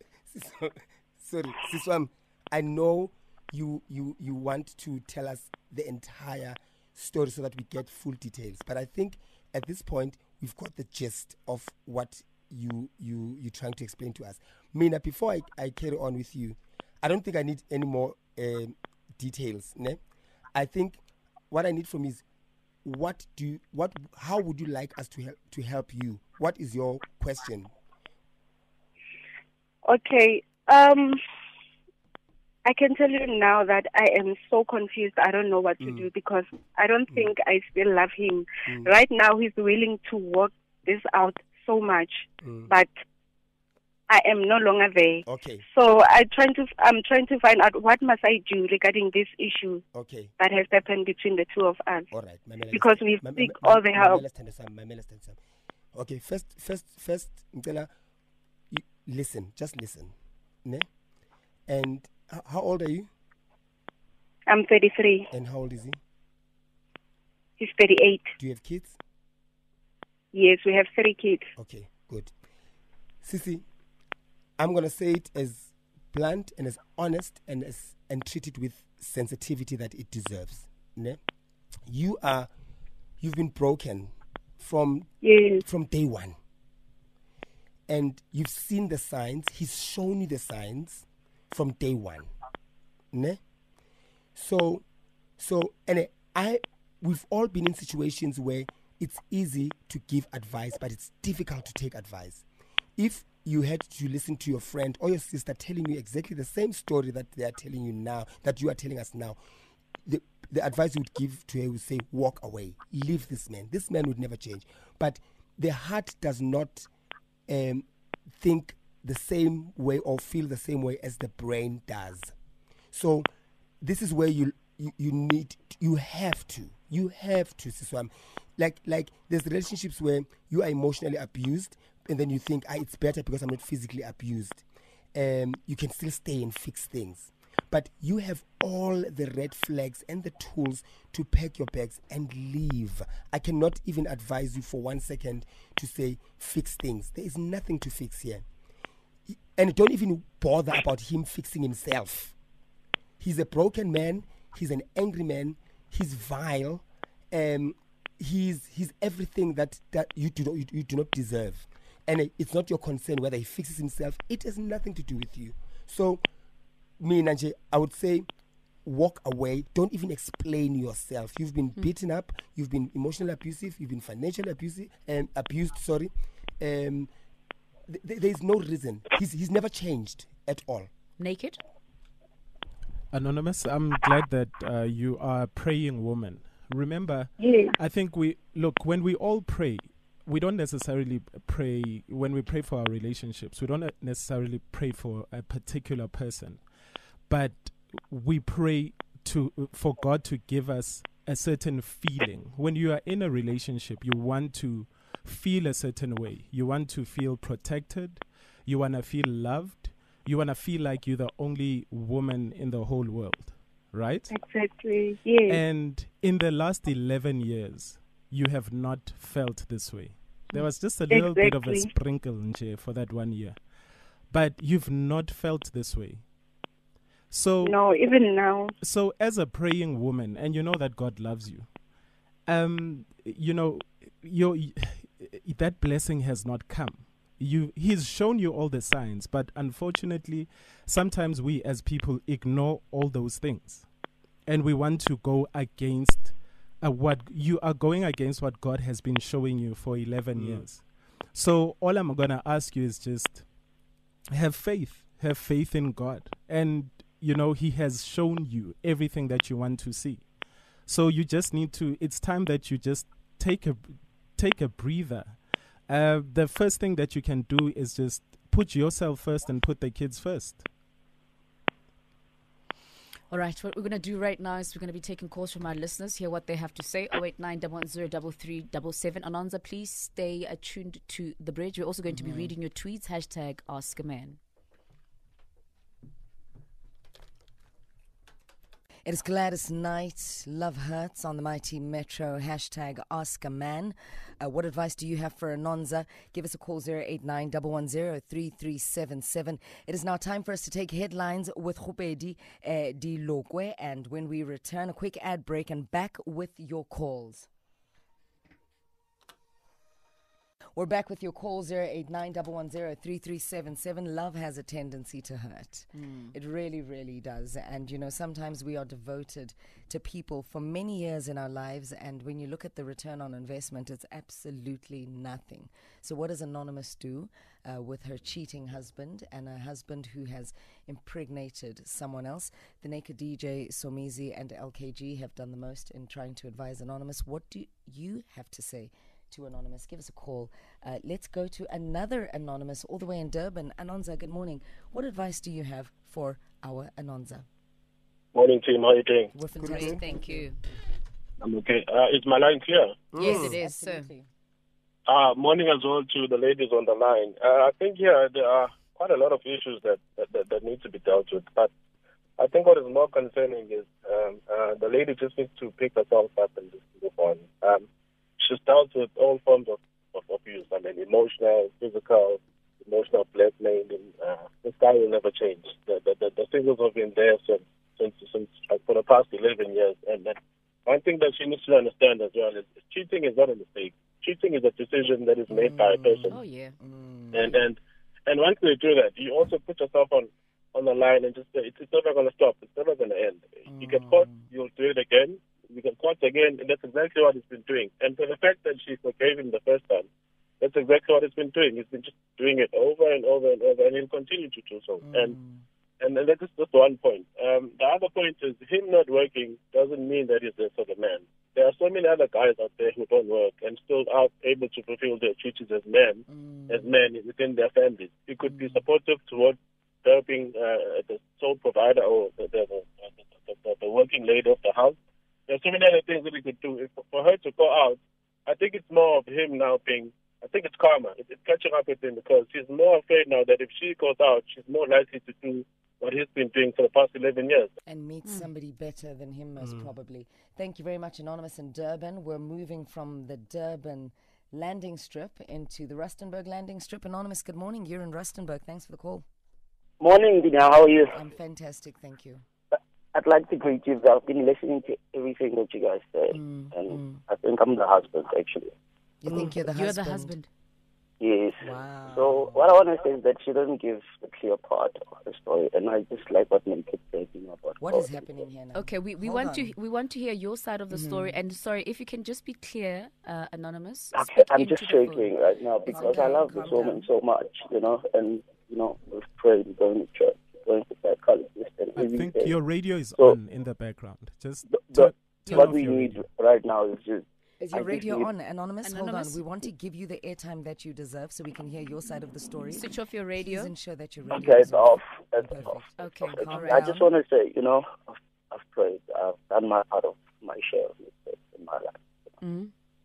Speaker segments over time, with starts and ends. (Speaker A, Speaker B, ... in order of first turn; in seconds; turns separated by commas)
Speaker A: 0.3-20.0, Speaker A: 20.5-22.2, Speaker A: 22.8-27.7, Speaker B: 29.9-31.2, Speaker B: 32.6-42.9, Speaker A: 35.8-36.1, Speaker A: 42.4-42.7, Speaker B: 44.1-49.8, Speaker A: 45.3-45.6, Speaker A: 49.9-50.3, Speaker B: 50.4-52.1, Speaker A: 52.1-55.4, Speaker B: 52.7-54.2, Speaker A: 55.9-57.9, Speaker A: 58.7-60.1, Speaker A: 61.7-63.1, Speaker B: 64.5-65.3, Speaker A: 65.3-66.0, Speaker B: 67.6-68.3, Speaker A: 68.4-69.0, Speaker B: 70.3-71.5, Speaker A: 71.6-72.3, Speaker A: 73.2-73.7, Speaker A: 74.6-81.2, Speaker A: 81.9-82.5, Speaker A: 83.2-85.1, Speaker B: 85.2-85.6, Speaker A: 85.6-86.4, Speaker A: 87.9-92.3, Speaker A: 93.1-93.4, Speaker A: 94.3-94.8, Speaker A: 95.4-102.4, Speaker A: 103.0-109.4, Speaker A: 110.1-116.9, Speaker A: 117.5-122.3, Speaker A: 122.9-123.3, Speaker A: 123.8-148.4, Speaker A: 149.3-152.3, Speaker A: 153.2-166.2, Speaker A: 167.0-168.3, Speaker A: 168.8-177.1, Speaker A: 177.9-180.9, Speaker C: 181.2-181.6, Speaker D: 183.1-196.6, Speaker B: 187.4-187.8, Speaker D: 197.3-214.3, Speaker B: 214.3-215.6, Speaker D: 215.5-223.6, Speaker B: 221.1-221.9, Speaker D: 224.3-226.2, Speaker D: 227.3-227.8, Speaker B: 227.6-228.7, Speaker D: 228.8-231.7, Speaker D: 232.5-243.9, Speaker D: 244.5-253.5, Speaker A: 250.3-250.7, Speaker D: 254.3-260.3, Speaker D: 260.9-270.7, Speaker C: 273.3-284.4, Speaker E: 282.1-282.5, Speaker E: 289.1-307.5, Speaker E: 310.8-347.5, Speaker C: 315.9-316.3, Speaker F: 348.3-349.3, Speaker E: 349.3-350.5, Speaker A: 349.6-350.0, Speaker C: 349.6-350.6, Speaker F: 351.4-353.1, Speaker A: 353.1-353.6, Speaker E: 353.2-354.3, Speaker C: 353.2-354.1, Speaker F: 355.1-361.7, Speaker F: 362.4-367.9, Speaker F: 368.4-386.4, Speaker E: 385.5-387.6, Speaker C: 386.3-386.8, Speaker F: 387.3-400.1, Speaker E: 393.7-394.5, Speaker F: 400.6-405.4, Speaker E: 405.0-405.6, Speaker F: 406.0-425.0, Speaker E: 416.3-416.9, Speaker E: 418.4-418.8, Speaker F: 425.5-437.7, Speaker E: 437.9-449.3, Speaker G: 450.0-451.1, Speaker E: 451.1-452.4, Speaker G: 453.1-458.8, Speaker E: 456.3-457.2, Speaker E: 459.2-460.4, Speaker C: 459.3-460.5, Speaker G: 461.2-468.3, Speaker E: 461.6-462.7, Speaker E: 467.8-469.7, Speaker C: 468.8-475.3, Speaker E: 470.9-471.4, Speaker G: 474.1-482.6, Speaker E: 475.9-477.1, Speaker C: 475.9-476.4, Speaker D: 482.0-486.2, Speaker G: 484.7-488.3, Speaker E: 487.6-497.1, Speaker C: 488.8-489.4, Speaker C: 492.7-493.7, Speaker G: 494.3-502.1, Speaker C: 496.0-496.8, Speaker C: 502.4-502.7